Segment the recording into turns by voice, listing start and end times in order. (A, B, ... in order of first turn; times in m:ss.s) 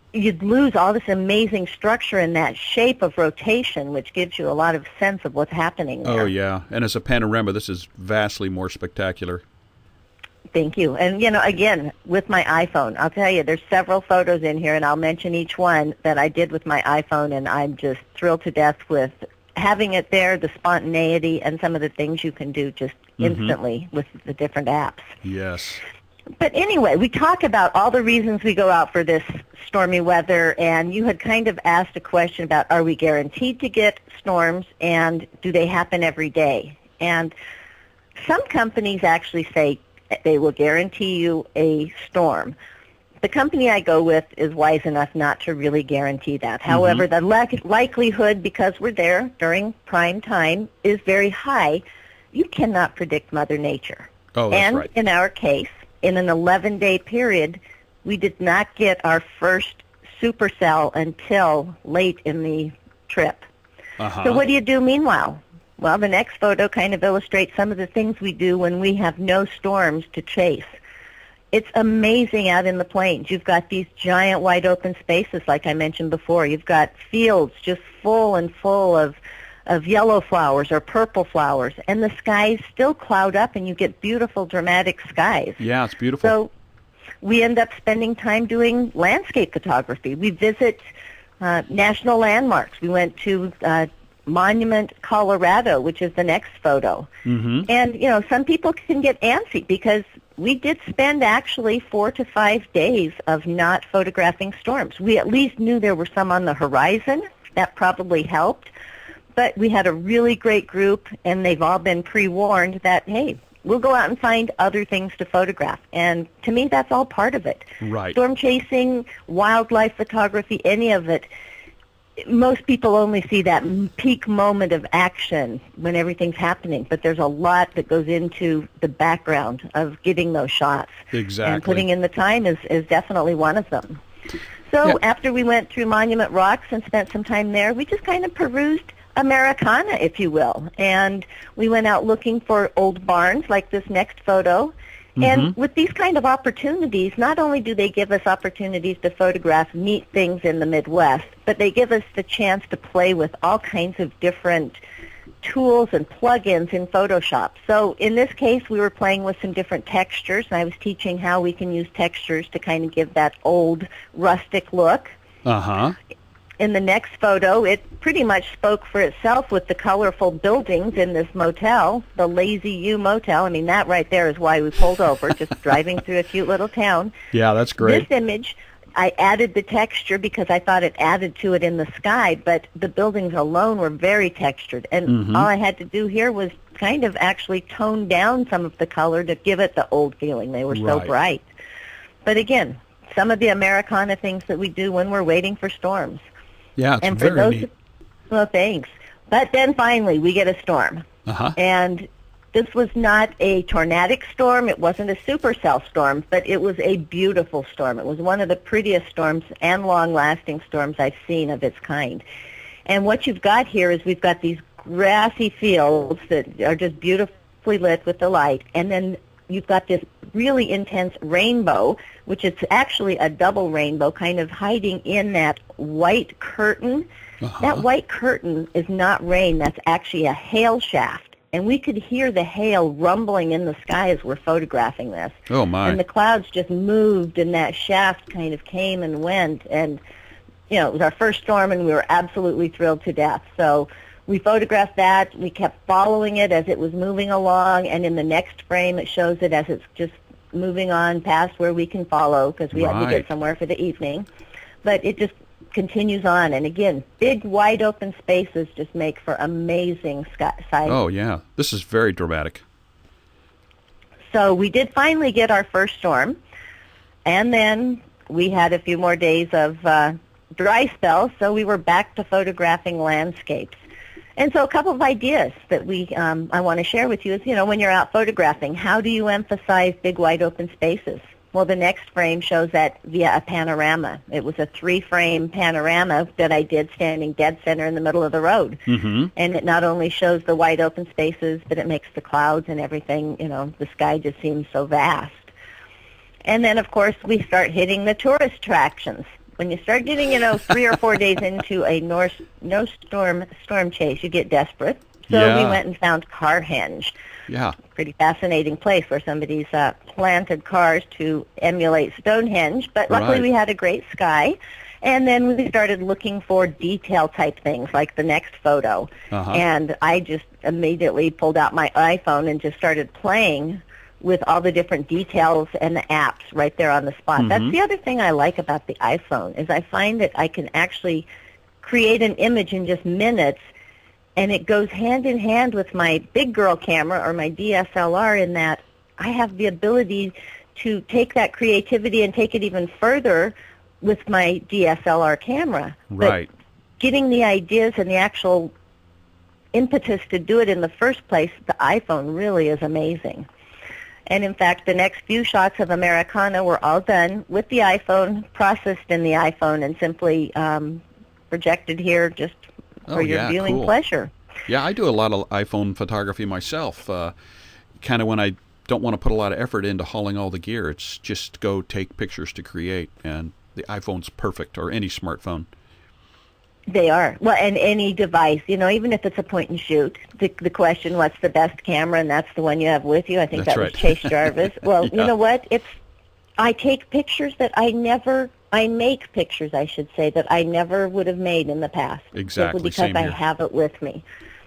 0:00.1-0:06.3 A
0:06.0-0:09.4 B
0:10.5-0:25.2 A
0:23.2-0:23.6 B
0:25.2-0:25.8 B
0:26.4-0:37.3 A
0:38.2-0:42.6 A
0:43.2-1:03.5 A
0:46.7-0:47.0 B
0:54.3-0:54.9 B
1:04.0-1:04.4 B
1:04.2-1:10.8 A
1:11.5-1:25.6 A
1:25.6-1:26.4 B
1:26.2-1:26.5 A
1:27.2-1:30.9 A
1:31.4-1:37.1 A
1:37.3-1:37.7 B
1:37.6-1:48.7 A
1:49.4-2:01.3 A
1:57.8-1:58.2 B
2:02.2-2:14.0 A
2:11.1-2:11.9 B
2:14.7-2:34.8 A
2:25.2-2:25.5 B
2:35.4-2:45.1 A
2:45.4-2:46.0 B
2:46.6-2:57.2 A
2:57.3-2:58.1 B
2:57.8-3:11.5 A
3:05.1-3:05.5 B
3:10.7-3:11.1 B
3:12.2-3:16.2 A
3:16.8-3:17.7 B
3:17.0-3:17.7 A
3:18.3-3:32.2 A
3:21.3-3:21.6 B
3:32.9-3:47.1 A
3:47.4-3:47.8 B
3:47.6-4:00.0 A
3:55.5-3:56.0 B
4:00.7-4:14.3 A
4:12.7-4:13.2 B
4:14.8-4:21.0 A
4:20.9-4:22.6 B
4:24.3-4:26.4 A
4:27.3-4:33.8 A
4:34.4-4:55.5 A
4:48.9-4:49.3 B
4:56.4-5:07.1 A
5:05.3-5:05.8 B
5:07.5-5:07.8 B
5:07.8-5:31.3 A
5:13.1-5:13.4 B
5:19.3-5:19.6 B
5:27.4-5:27.7 B
5:31.8-5:33.7 A
5:34.4-5:46.4 A
5:46.1-5:46.5 B
5:47.0-5:48.7 A
5:49.7-5:53.5 A
5:54.3-6:04.3 A
6:03.1-6:03.9 B
6:04.7-6:07.3 B
6:08.0-6:15.7 B
6:16.9-6:26.0 A
6:23.6-6:24.5 B
6:26.6-6:34.2 A
6:32.3-6:33.4 B